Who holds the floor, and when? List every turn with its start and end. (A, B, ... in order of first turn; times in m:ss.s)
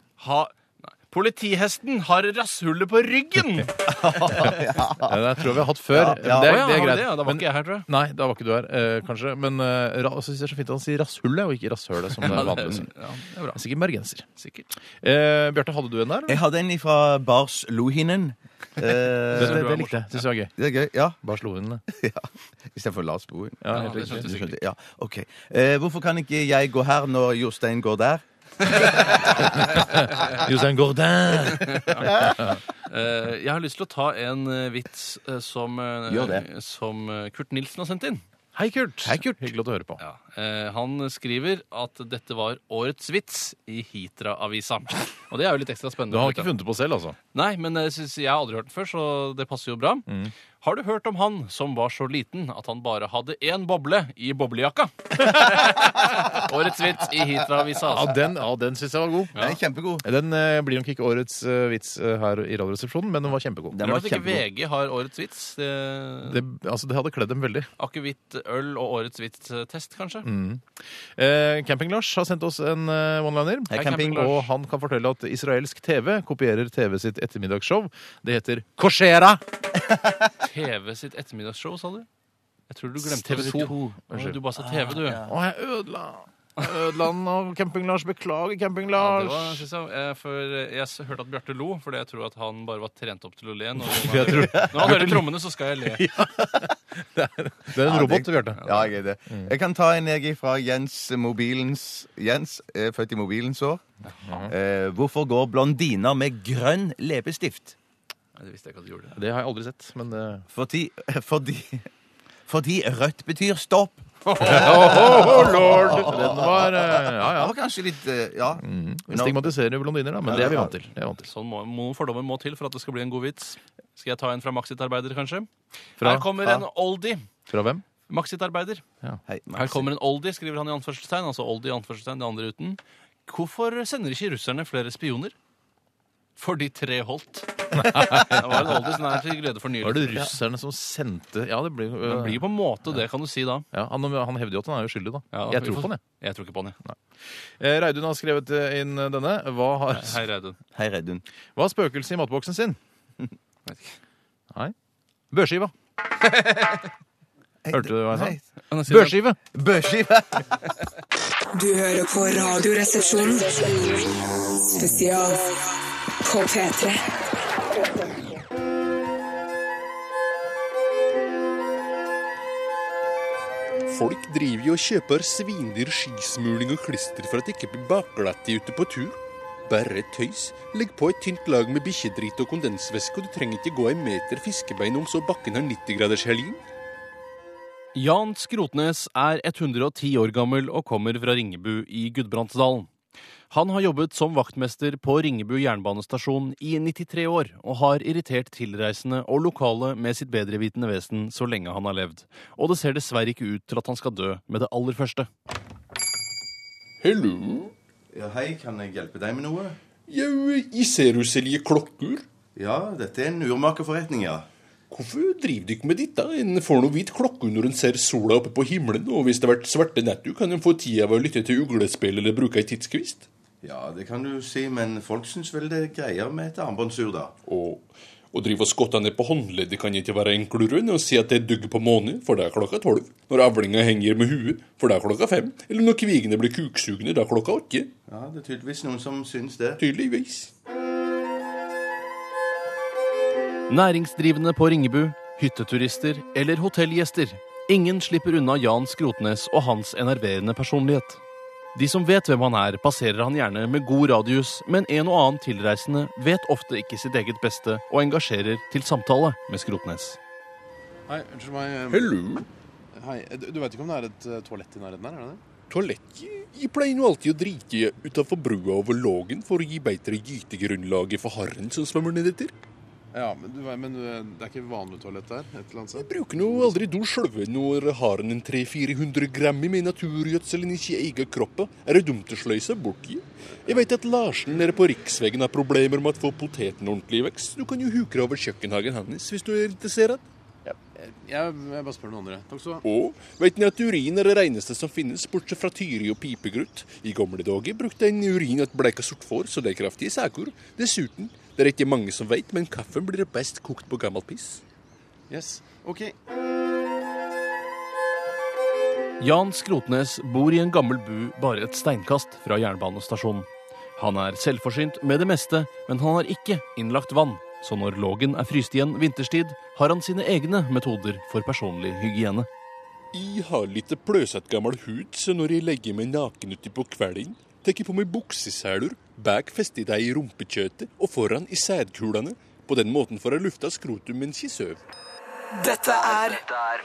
0:00.2-0:04.4 A
0:03.9-0:05.2 B
0:05.0-0:12.9 C
0:05.9-0:06.6 B
0:06.4-0:07.9 A
0:12.2-0:13.6 A
0:12.3-0:12.6 B
0:13.5-0:14.2 C
0:14.4-0:14.7 A
0:15.0-0:16.4 C
0:16.3-0:19.6 B
0:19.3-0:20.2 A
0:19.3-0:20.5 C
0:20.6-0:21.2 B
0:21.2-0:21.8 C
0:21.9-0:29.7 B
0:23.6-0:24.3 C
0:23.7-0:24.6 A
0:29.7-0:32.6 C
0:31.4-0:38.2 A
0:36.1-0:36.4 B
0:38.5-0:40.0 C
0:40.0-0:46.5 A
0:46.1-0:47.2 C
0:47.3-0:50.0 A
0:50.1-0:50.3 C
0:50.6-0:58.2 A
0:57.9-0:59.3 C
0:59.4-1:00.0 B
1:00.0-1:03.8 C
1:03.7-1:04.4 B
1:03.8-1:06.4 A
1:06.2-1:07.7 C
1:07.8-1:10.3 A
1:10.2-1:10.6 C
1:11.2-1:19.4 C
1:13.7-1:14.3 B
1:13.7-1:14.5 A
1:20.4-1:22.1 A
1:22.7-1:25.2 A
1:23.0-1:24.4 C
1:23.3-1:24.0 B
1:24.6-1:25.3 B
1:25.3-1:29.6 C
1:28.9-1:36.0 A
1:33.8-1:35.3 C
1:35.9-1:38.6 C
1:37.8-1:43.8 B
1:38.6-1:38.9 A
1:44.2-1:44.5 C
1:44.5-1:47.7 B
1:48.4-1:49.2 A
1:49.1-1:50.4 C
1:50.5-1:51.9 B
1:52.5-1:59.4 B
1:54.4-1:57.5 C
1:58.6-2:01.2 C
2:00.3-2:00.7 B
2:01.2-2:07.2 A
2:06.0-2:06.3 C
2:07.5-2:07.8 C
2:08.1-2:08.8 A
2:09.3-2:09.9 B
2:09.5-2:15.3 A
2:16.4-2:20.3 A
2:17.8-2:18.6 C
2:19.8-2:22.4 C
2:22.0-2:23.6 A
2:23.7-2:26.0 C
2:25.3-2:26.8 A
2:27.6-2:30.2 C
2:29.9-2:30.6 A
2:30.7-2:31.2 B
2:31.6-2:32.8 C
2:33.6-2:34.0 A
2:35.3-2:35.7 C
2:37.6-2:38.4 B
2:37.7-2:38.4 C
2:38.7-2:39.2 A
2:38.9-2:39.4 C
2:39.5-2:40.6 B
2:41.5-2:44.1 D
2:44.7-2:45.6 D
2:46.2-2:47.0 D
2:53.9-3:06.6 E
3:07.9-3:12.9 A
3:13.5-3:25.3 A
3:27.0-3:27.7 E
3:28.1-3:29.8 B
3:30.1-3:32.2 E
3:32.6-3:34.5 B
3:34.9-3:43.3 E
3:43.6-3:47.3 B
3:47.5-3:57.9 E
3:58.1-3:59.8 B
3:59.8-4:00.5 E
4:03.7-4:11.2 A
4:11.7-4:20.2 A
4:21.1-4:22.1 C
4:21.9-4:22.4 E
4:23.0-4:25.4 C
4:25.7-4:32.5 E
4:33.1-4:36.1 C
4:36.0-4:50.2 E
4:50.6-4:52.8 C
4:52.8-5:04.6 E
5:05.3-5:06.1 C
5:09.2-5:22.5 A
5:23.1-5:34.8 E
5:35.5-5:36.4 D